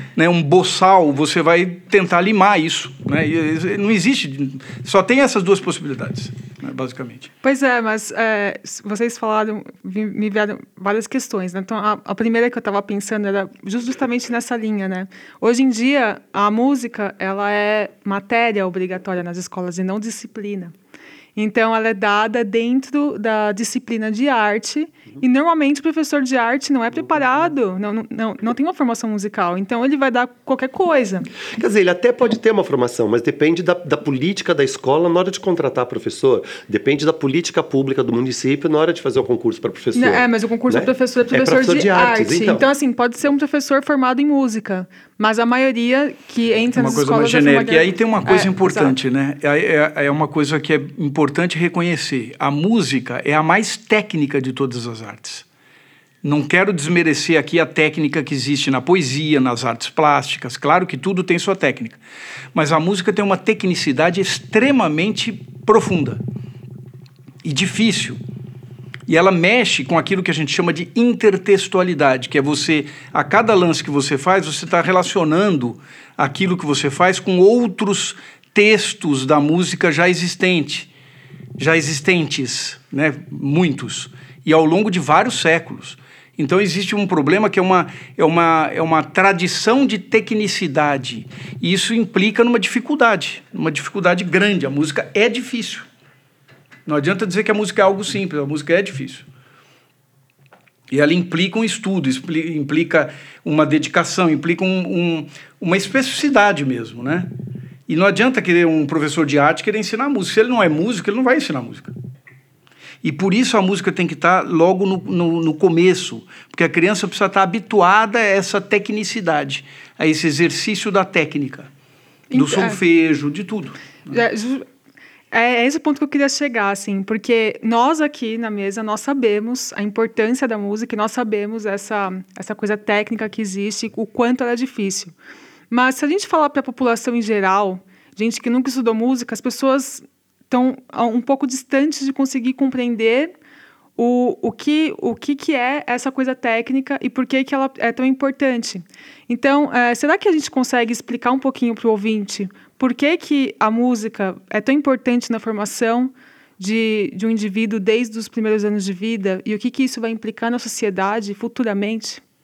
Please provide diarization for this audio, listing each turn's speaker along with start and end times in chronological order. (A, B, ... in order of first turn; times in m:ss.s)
0:00.2-0:07.3 A
0:07.4-0:20.7 B
0:21.4-0:31.3 B
0:31.6-0:42.7 C
0:39.9-0:48.9 B
0:46.8-0:55.4 A
0:56.2-1:02.0 A
1:02.5-1:06.2 A
1:07.4-1:08.2 A
1:09.1-1:20.9 A
1:21.6-1:35.9 A
1:36.8-1:39.3 A
1:40.9-1:47.3 A
1:47.9-1:51.9 A
1:53.0-2:01.7 A
2:02.3-2:02.8 B
2:02.3-2:03.8 A
2:04.1-2:04.6 B
2:05.3-2:15.1 B
2:15.7-2:23.3 B
2:24.0-2:42.2 B